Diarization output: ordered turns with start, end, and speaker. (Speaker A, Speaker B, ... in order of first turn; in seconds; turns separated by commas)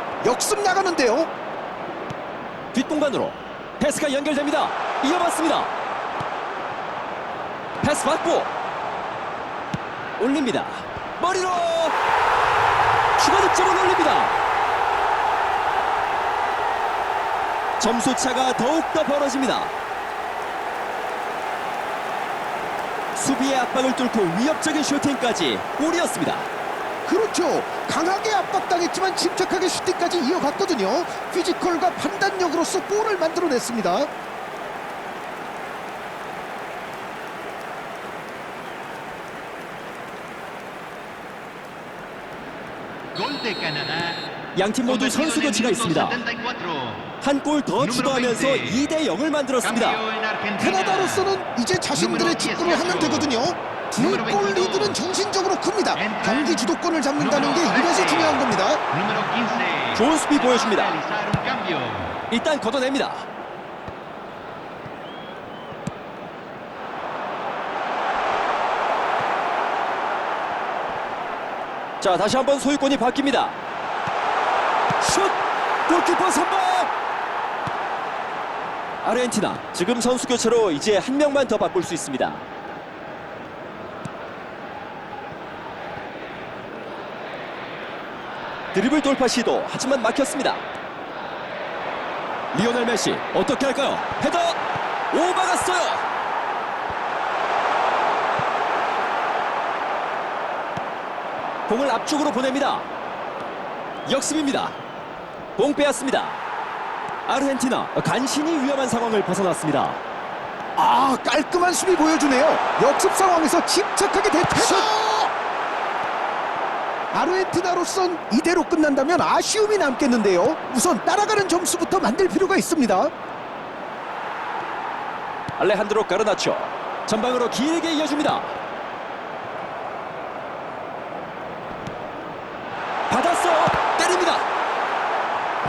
Speaker A: 0.2-1.3, Speaker B: 2.7-5.7, Speaker B: 7.8-8.5, Speaker B: 10.2-11.9, Speaker B: 13.2-14.3, Speaker B: 17.8-19.7, Speaker B: 23.1-26.5, Speaker A: 27.1-34.1, Speaker C: 43.1-44.3, Speaker B: 44.5-46.2, Speaker C: 44.8-47.1, Speaker B: 47.2-50.0, Speaker C: 47.8-48.9, Speaker C: 49.6-51.4, Speaker A: 50.6-58.8, Speaker C: 51.9-53.3, Speaker C: 54.0-55.0, Speaker C: 55.9-62.2, Speaker B: 59.9-61.0, Speaker B: 62.3-63.2, Speaker B: 72.0-73.6, Speaker B: 75.0-76.9, Speaker B: 79.0-82.4, Speaker B: 88.7-90.6, Speaker B: 92.5-94.6, Speaker B: 95.1-96.0, Speaker B: 101.7-102.9, Speaker B: 104.0-104.8, Speaker B: 105.6-106.4, Speaker B: 107.3-110.0, Speaker A: 110.8-115.3, Speaker A: 117.1-123.1, Speaker B: 125.6-128.6, Speaker B: 133.1-134.4